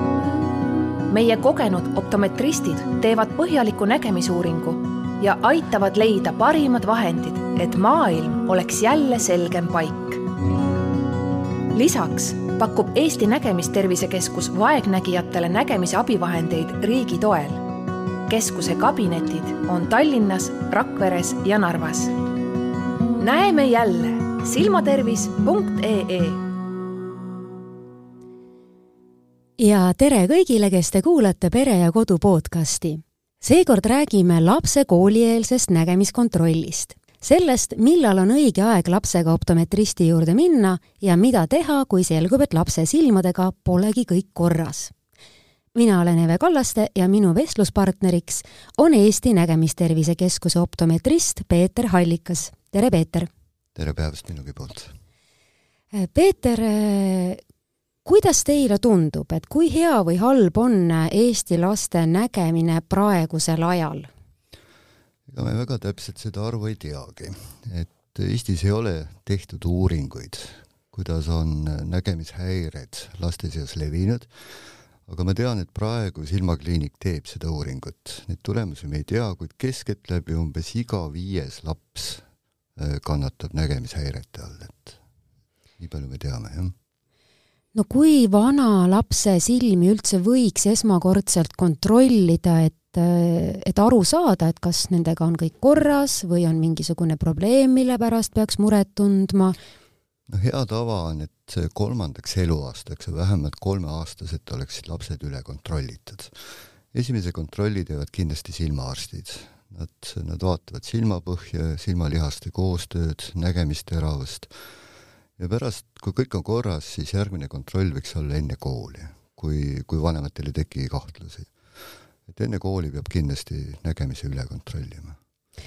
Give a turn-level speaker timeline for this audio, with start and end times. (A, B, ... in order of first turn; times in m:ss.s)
0:01.1-0:10.2 A
0:11.7-0:17.7 A
0:18.3-0:22.1 A
0:23.2-0:26.5 A
0:29.6-0:44.9 B
0:45.8-0:53.3 B
0:53.8-0:54.9 C
0:55.9-0:57.4 B
0:58.0-1:04.1 B
1:05.3-1:22.2 C
1:22.8-1:25.0 C
1:25.8-1:26.7 C
1:27.8-1:39.6 B
1:40.3-1:54.5 C
1:55.4-2:01.5 C
2:02.3-2:05.2 C